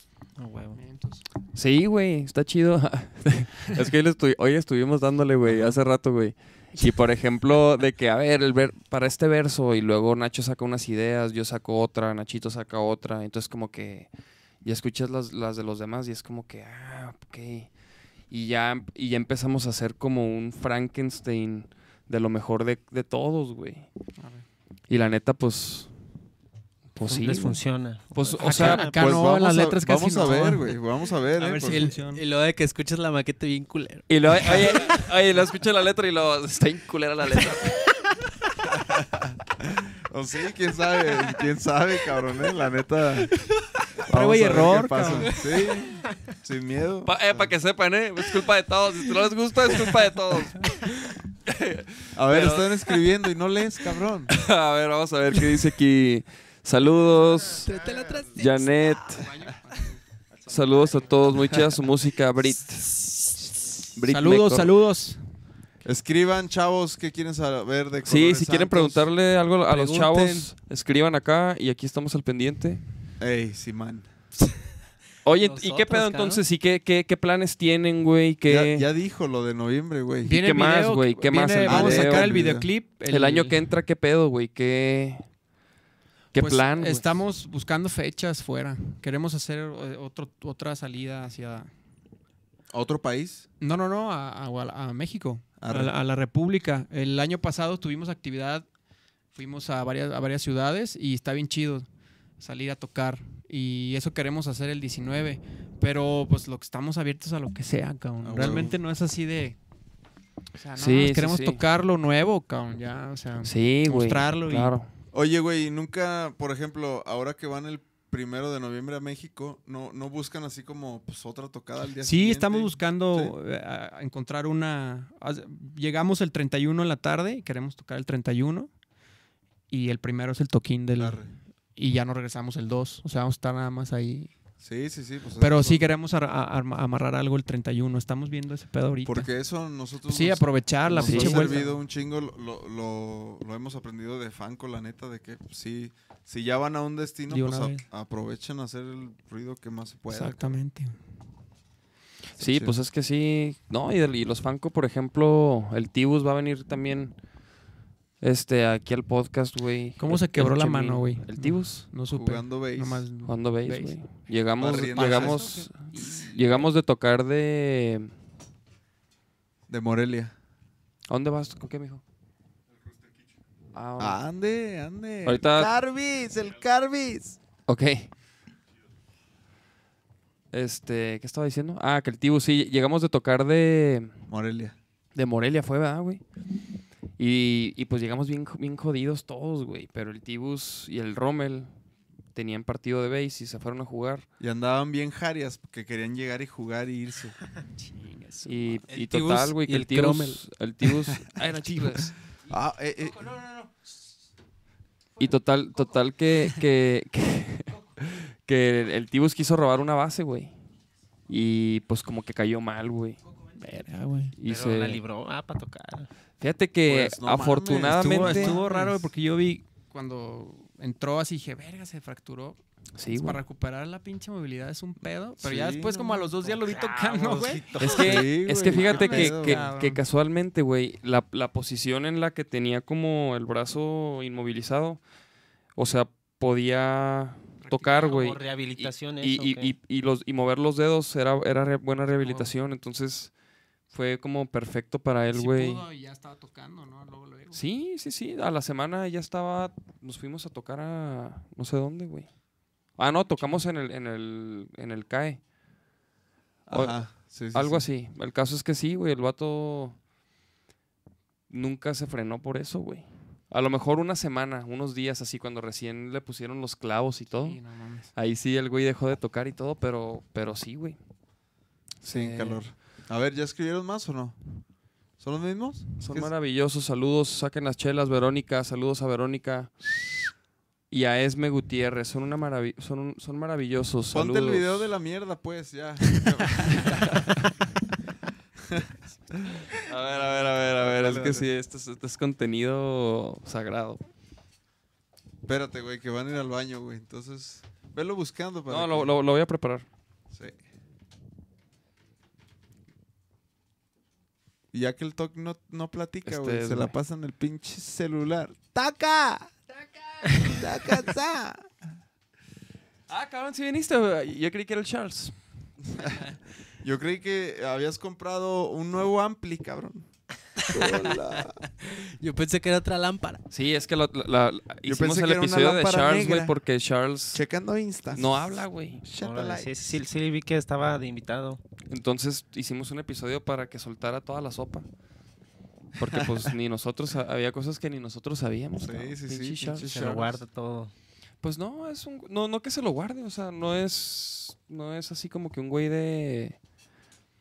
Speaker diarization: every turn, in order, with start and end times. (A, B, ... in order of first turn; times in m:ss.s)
0:00.4-0:00.8 A
0:00.7-0:01.2 B
0:01.5-0:14.1 C
0:14.6-0:17.7 C
0:18.3-0:23.9 C
0:24.2-0:24.4 B
0:24.9-0:25.9 C
0:26.9-0:27.6 C
0:27.0-0:28.9 A
0:28.1-0:28.9 C
0:28.4-0:30.7 B
0:29.0-0:31.9 D
0:31.4-0:35.1 E
0:31.6-0:32.2 B
0:34.1-0:37.9 C
0:38.7-0:43.3 D
0:44.0-0:47.5 D
0:44.0-0:45.3 B
0:47.0-0:52.8 C
0:52.1-0:54.3 D
0:54.3-0:57.7 C
0:57.5-0:59.1 E
0:58.3-0:59.2 C
0:59.1-1:00.0 B
1:00.4-1:03.3 C
1:03.9-1:04.7 C
1:04.0-1:05.2 B
1:05.8-1:09.1 D
1:08.0-1:12.8 C
1:09.7-1:10.5 E
1:13.2-1:14.1 D
1:15.2-1:18.9 C
1:15.4-1:16.4 E
1:18.5-1:20.4 D
1:20.2-1:23.6 B
1:20.3-1:22.3 C
1:21.6-1:22.7 D
1:23.0-1:25.2 C
1:26.3-1:27.1 C
1:26.4-1:31.7 B
1:32.7-1:33.4 D
1:33.6-1:38.6 B
1:35.6-1:35.9 D
1:39.3-1:41.9 B
1:42.4-1:49.6 B
1:48.2-1:48.7 D
1:50.6-1:54.7 B
1:50.7-1:51.6 C
1:53.4-1:54.9 C
1:55.1-2:03.3 D
2:02.0-2:08.7 B
2:09.7-2:11.2 B
2:11.0-2:11.3 D
2:11.8-2:14.3 B
2:14.6-2:15.8 D
2:15.4-2:19.3 B
2:19.0-2:30.6 D
2:20.1-2:21.7 B
2:21.0-2:21.6 C
2:27.3-2:27.8 B
2:30.1-2:31.0 B
2:32.3-2:37.1 C
2:32.4-2:32.8 D
2:38.2-2:41.8 C
2:40.0-2:44.0 B
2:42.1-2:43.0 D
2:43.2-2:48.1 C
2:44.6-2:45.4 D
2:44.8-2:46.6 B
2:49.7-2:50.3 D
2:51.1-2:52.0 C
2:53.7-2:54.2 C
2:54.0-2:57.4 D
2:55.2-2:55.7 C
2:57.7-2:58.1 C
3:00.5-3:04.1 C
3:04.3-3:04.8 D
3:05.1-3:06.2 C
3:07.2-3:11.7 C
3:12.3-3:14.2 C
3:14.4-3:17.4 D
3:17.8-3:18.8 B
3:18.4-3:22.1 C
3:18.9-3:20.4 E
3:22.5-3:23.3 D
3:25.2-3:30.5 C
3:31.3-3:33.2 C
3:33.6-3:34.4 B
3:34.4-3:35.0 C
3:34.4-3:36.1 A
3:36.4-3:38.6 C
3:36.8-3:38.6 D
3:37.9-3:42.6 B
3:43.0-3:43.4 C
3:43.1-3:48.1 B
3:45.4-3:49.7 D
3:47.8-3:55.0 C
3:48.7-3:50.0 B
3:55.7-4:03.3 C
3:57.6-3:58.2 B
3:58.0-3:59.7 A
4:02.1-4:02.5 B
4:03.9-4:05.8 C
4:05.3-4:07.6 B
4:07.5-4:12.3 C
4:13.0-4:15.4 C
4:16.7-4:20.0 C
4:16.7-4:17.8 D
4:21.5-4:27.6 C
4:27.3-4:28.1 B
4:28.1-4:31.0 C
4:32.0-4:32.6 C
4:32.0-4:34.4 D
4:35.2-4:36.3 D
4:36.0-4:39.8 C
4:40.9-4:44.8 C
4:44.1-4:47.3 D
4:46.9-4:47.4 C
4:48.6-4:51.5 D
4:49.9-4:54.0 C
4:55.4-4:59.1 D
4:58.7-4:59.8 C
5:00.3-5:00.6 D
5:04.7-5:09.6 D
5:06.2-5:06.9 C
5:10.4-5:11.7 D
5:13.1-5:15.4 C
5:15.9-5:16.3 D
5:16.8-5:21.6 D
5:20.8-5:21.2 E
5:21.7-5:23.4 E
5:23.5-5:27.4 C
5:24.8-5:26.5 D
5:27.3-5:30.0 D
5:28.1-5:29.0 C
5:29.1-5:31.6 A
5:31.9-5:34.9 C
5:35.9-5:40.0 C
5:36.0-5:36.5 D
5:38.8-5:40.4 D
5:39.8-5:40.9 A
5:41.4-5:46.6 C